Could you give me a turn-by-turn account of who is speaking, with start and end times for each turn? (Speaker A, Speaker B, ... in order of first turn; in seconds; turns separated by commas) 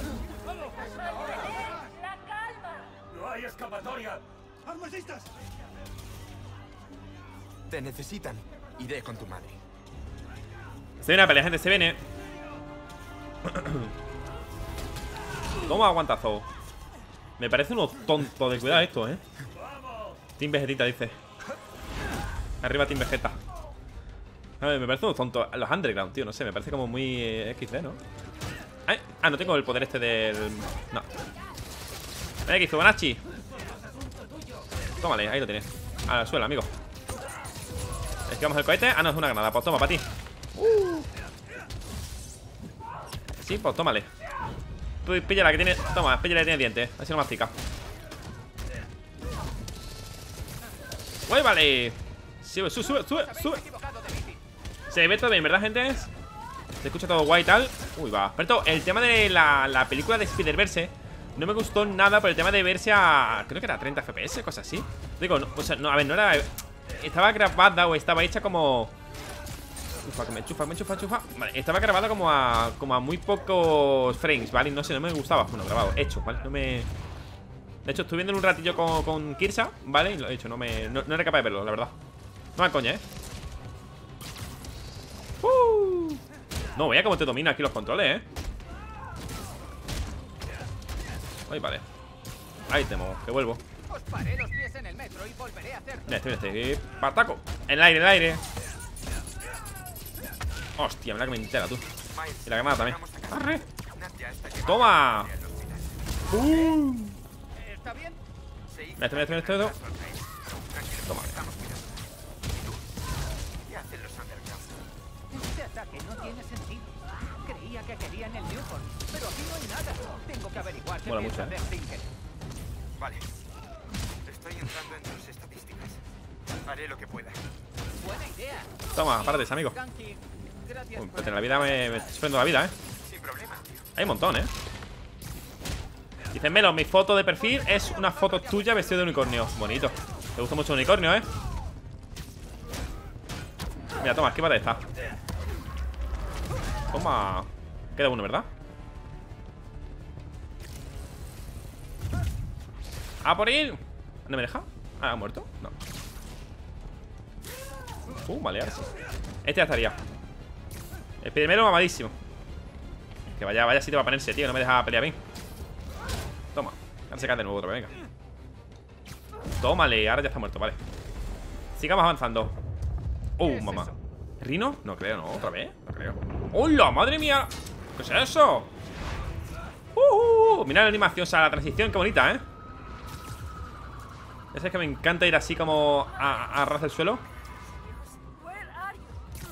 Speaker A: 0.6-3.0, Speaker B: 3.1-5.3, Speaker C: 7.7-9.6, Speaker D: 11.0-12.0, Speaker D: 13.4-13.9, Speaker D: 15.6-16.5, Speaker D: 17.4-19.2, Speaker B: 19.6-20.1, Speaker D: 20.4-21.2, Speaker D: 22.6-23.4, Speaker D: 24.6-28.0, Speaker D: 28.9-31.1, Speaker D: 32.5-33.2, Speaker D: 35.0-36.7, Speaker D: 38.2-41.1, Speaker D: 43.4-44.1, Speaker D: 45.0-47.5, Speaker D: 51.3-53.6, Speaker E: 52.8-54.4, Speaker D: 54.9-56.1, Speaker D: 56.8-68.9, Speaker D: 70.0-76.9, Speaker D: 77.8-81.9, Speaker D: 82.5-83.0, Speaker D: 85.4-86.2, Speaker D: 86.7-88.2, Speaker D: 91.5-91.8, Speaker D: 92.7-93.6, Speaker E: 93.9-96.2, Speaker D: 96.1-98.4, Speaker D: 100.8-101.8, Speaker C: 102.0-106.3, Speaker D: 102.4-103.6, Speaker D: 104.6-105.3, Speaker D: 106.3-107.2, Speaker E: 107.5-108.2, Speaker C: 108.7-112.8, Speaker D: 109.0-109.8, Speaker D: 111.0-111.3, Speaker C: 113.6-114.8, Speaker E: 115.3-122.1, Speaker D: 121.0-121.6, Speaker C: 123.0-123.3, Speaker C: 124.2-126.0, Speaker C: 126.6-127.4, Speaker E: 128.0-132.3, Speaker D: 128.9-129.8, Speaker D: 130.9-132.7, Speaker C: 133.0-133.9, Speaker D: 133.9-134.5, Speaker D: 136.3-141.3, Speaker E: 137.4-139.7, Speaker D: 144.0-144.8, Speaker D: 146.9-148.5, Speaker D: 153.2-155.7, Speaker D: 158.2-158.9, Speaker D: 159.4-160.0, Speaker D: 161.2-162.1, Speaker D: 163.2-165.2, Speaker D: 166.5-167.9, Speaker D: 169.6-170.8, Speaker D: 171.7-172.5, Speaker D: 173.4-178.7, Speaker E: 173.4-174.0, Speaker D: 179.9-182.4, Speaker D: 184.5-187.2, Speaker A: 186.1-189.2